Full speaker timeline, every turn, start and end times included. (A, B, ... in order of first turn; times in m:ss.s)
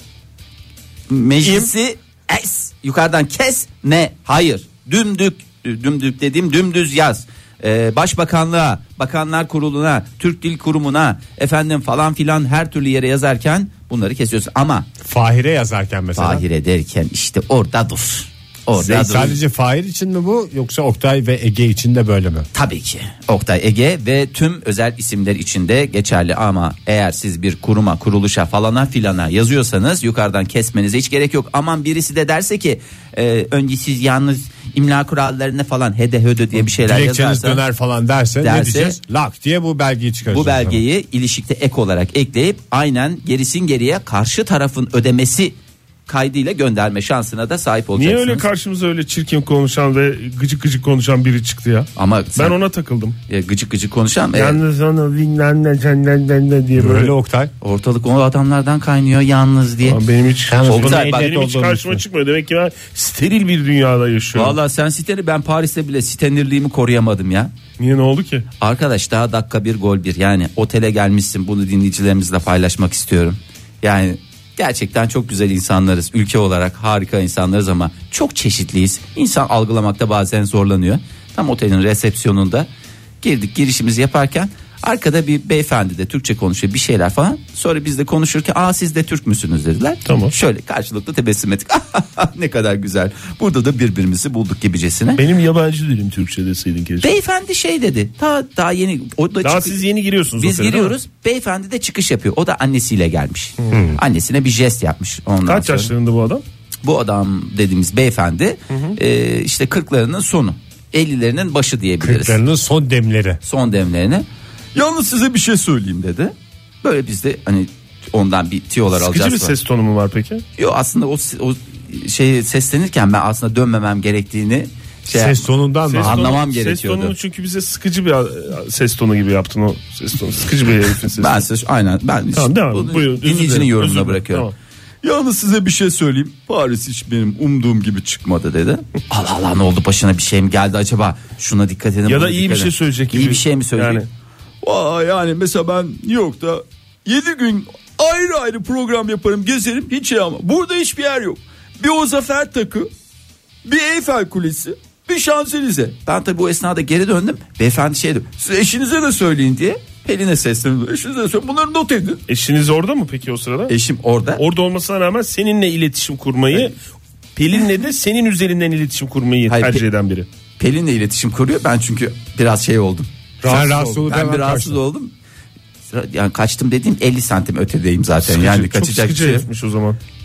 0:01.1-0:14.9 A
0:01.4-0:01.7 B
0:15.0-0:16.4 C
0:16.2-0:19.4 A
0:18.7-0:22.5 C
0:22.5-0:37.6 A
0:36.6-0:40.8 C
0:38.4-0:39.0 A
0:40.3-0:48.5 A
0:48.0-0:53.2 B
0:52.0-0:52.6 A
0:53.3-0:54.6 A
0:54.3-0:57.1 B
0:56.8-0:57.5 C
0:57.6-1:00.0 A
0:59.8-1:04.6 B
1:00.5-1:02.0 C
1:00.6-1:01.3 A
1:04.3-1:07.5 A
1:07.8-1:08.4 B
1:08.6-1:22.7 A
1:23.2-1:35.2 A
1:30.0-1:30.3 B
1:35.2-1:37.1 B
1:37.0-1:39.8 A
1:39.4-1:41.0 B
1:40.4-1:45.9 A
1:43.7-1:44.0 C
1:45.4-1:46.4 B
1:46.8-1:52.4 A
1:48.7-1:49.0 B
1:52.0-1:53.4 C
1:53.4-1:59.5 A
1:58.9-2:00.4 B
2:00.6-2:07.1 A
2:05.1-2:06.4 C
2:05.9-2:11.4 B
2:11.2-2:14.5 A
2:12.3-2:14.5 B
2:15.0-2:24.0 A
2:22.1-2:24.1 B
2:24.6-2:32.9 A
2:33.6-2:42.2 A
2:42.3-2:43.7 B
2:43.7-2:44.4 A
2:44.4-2:46.7 B
2:47.4-2:50.3 B
2:49.5-2:49.8 A
2:50.6-2:55.1 A
2:53.4-2:54.0 B
2:53.4-2:54.8 C
2:55.9-2:59.5 A
2:58.2-3:00.0 B